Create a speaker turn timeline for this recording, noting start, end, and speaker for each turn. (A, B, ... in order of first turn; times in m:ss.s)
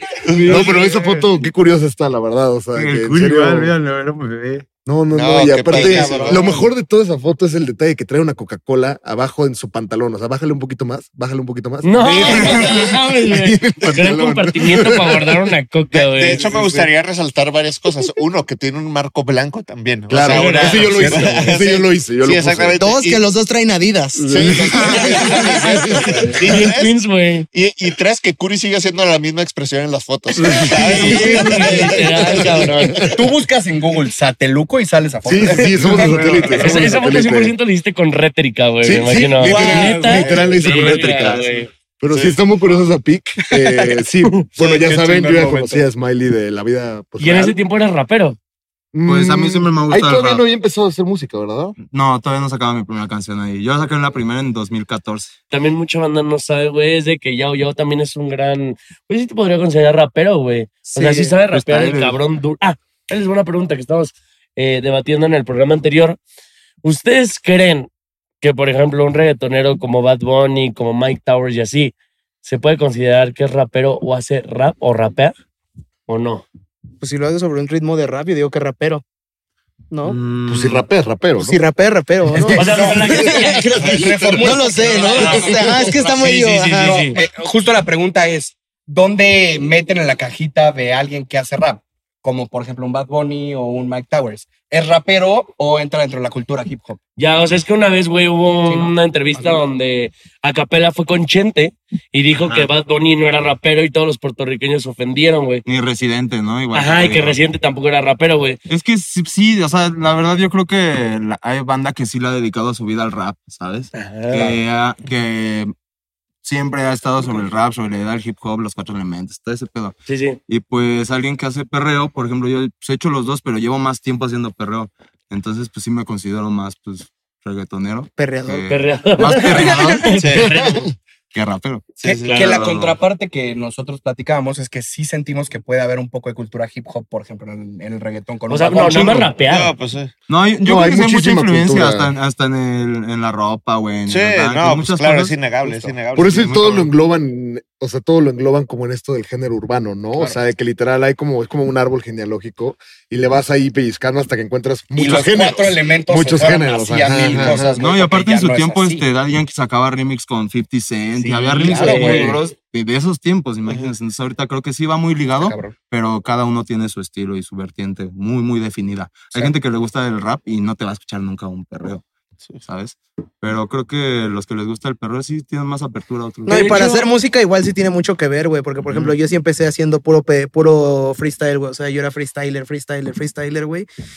0:00.2-0:01.2 A
0:00.4-0:03.7 B
0:02.7-0:04.6 C
0:04.8-0:15.5 B
0:05.1-0:06.7 A
0:11.8-0:16.5 D
0:12.2-0:12.7 A
0:15.9-0:23.2 A
0:16.4-0:16.8 B
0:20.1-0:22.8 B
0:20.2-0:21.4 D
0:22.8-0:25.4 E
0:24.2-0:27.0 A
0:24.3-0:26.4 B
0:24.6-0:25.1 C
0:26.4-0:27.5 D
0:27.5-0:32.7 A
0:30.3-0:33.2 B
0:30.7-0:33.1 D
0:33.1-0:36.5 F
0:35.2-0:37.5 B
0:35.8-0:36.6 A
0:36.5-0:41.7 D
0:38.8-0:41.4 B
0:39.4-0:41.4 A
0:42.0-0:47.6 B
0:42.1-0:42.4 A
0:43.5-0:43.8 F
0:44.5-0:45.9 F
0:47.2-0:48.4 D
0:48.9-0:51.8 B
0:49.0-0:50.4 C
0:51.8-0:55.4 C
0:55.5-1:06.2 D
1:00.9-1:01.4 E
1:01.5-1:02.2 C
1:06.8-1:07.9 D
1:08.4-1:15.3 D
1:16.1-1:16.4 D
1:17.0-1:19.0 E
1:19.9-1:20.2 E
1:20.0-1:20.8 C
1:20.5-1:21.6 B
1:21.4-1:23.6 E
1:22.3-1:37.0 F
1:22.5-1:24.0 D
1:23.8-1:24.3 B
1:24.3-1:27.1 E
1:26.8-1:27.2 D
1:37.2-1:45.6 D
1:38.7-1:39.6 F
1:42.4-1:42.7 C
1:45.6-1:47.4 C
1:46.7-1:48.6 D
1:48.7-1:55.7 C
1:53.9-1:54.4 D
1:54.3-1:54.6 F
1:56.4-2:10.6 C
2:00.1-2:00.4 D
2:08.2-2:08.6 E
2:08.7-2:10.8 D
2:09.6-2:10.0 E
2:10.2-2:10.6 A
2:11.3-2:13.0 C
2:12.0-2:12.7 A
2:12.0-2:19.3 F
2:18.5-2:19.7 D
2:19.4-2:20.1 A
2:20.3-2:25.4 C
2:20.6-2:22.1 B
2:24.1-2:26.6 A
2:26.2-2:37.8 B
2:26.3-2:26.9 C
2:34.9-2:39.0 F
2:37.3-2:52.0 C
2:41.2-2:42.4 F
2:41.7-2:42.4 D
2:42.0-2:42.2 B
2:45.4-2:45.7 F
2:52.6-2:56.8 C
2:56.4-3:03.9 E
2:56.5-2:57.1 D
2:58.8-2:59.1 C